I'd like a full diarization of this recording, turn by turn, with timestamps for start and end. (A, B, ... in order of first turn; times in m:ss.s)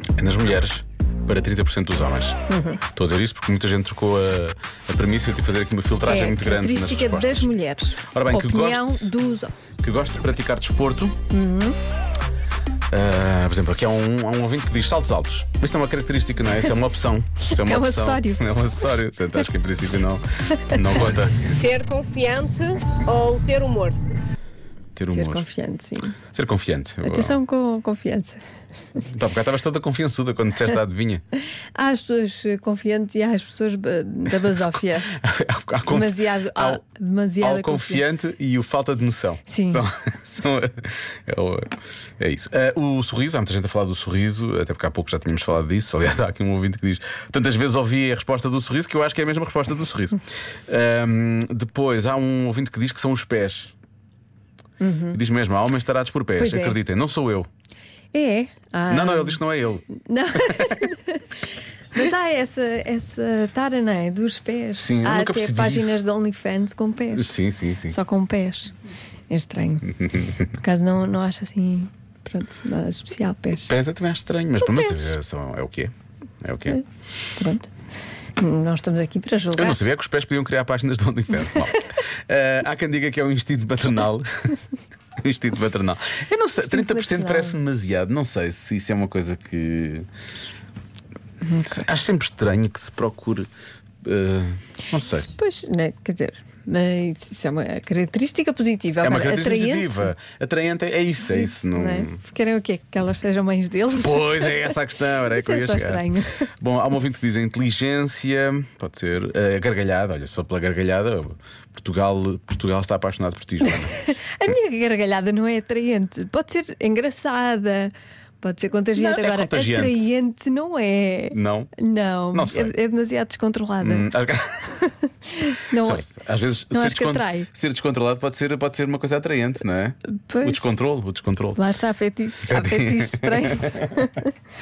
0:00.2-0:02.4 A
0:02.5-0:02.8 B
0:02.9-0:07.5 A
0:06.1-0:09.5 B
0:08.1-0:09.1 A
0:09.8-0:11.2 A
0:11.3-0:11.8 B
0:12.9-0:21.6 A
0:17.4-0:18.5 B
0:20.5-0:21.0 B
0:21.4-0:24.0 C
0:25.0-0:25.4 A
0:25.1-0:26.2 B
0:26.3-0:27.4 A
0:27.0-0:28.4 B
0:29.0-0:31.2 A
0:31.7-0:35.1 B
0:34.4-0:36.8 A
0:35.9-0:38.0 B
0:37.4-0:53.7 A
0:39.5-0:39.8 B
0:54.8-0:55.2 B
0:55.1-0:57.5 A
0:56.4-0:56.8 B
0:58.1-0:59.4 B
0:58.9-1:00.8 A
1:00.0-1:01.4 B
1:01.9-1:08.7 B
1:04.7-1:06.0 A
1:07.2-1:08.0 A
1:09.3-1:13.7 B
1:10.0-1:10.4 A
1:13.6-1:16.8 A
1:14.6-1:15.1 B
1:17.4-1:17.7 B
1:18.4-1:19.8 B
1:19.6-1:24.5 A
1:25.2-1:30.1 A
1:26.6-1:27.6 B
1:31.4-1:31.8 B
1:31.6-1:33.5 A
1:34.0-1:35.3 A
1:35.1-1:40.1 B
1:39.0-1:42.2 A
1:41.3-1:46.5 B
1:44.0-1:54.0 A
1:53.6-2:04.1 B
1:59.0-2:00.1 A
2:01.3-2:01.7 A
2:02.3-2:02.7 A
2:03.8-2:04.7 A
2:04.8-2:06.1 B
2:05.8-2:11.6 A
2:06.7-2:07.5 B
2:10.1-2:10.7 B
2:11.6-2:14.3 B
2:12.4-2:13.9 A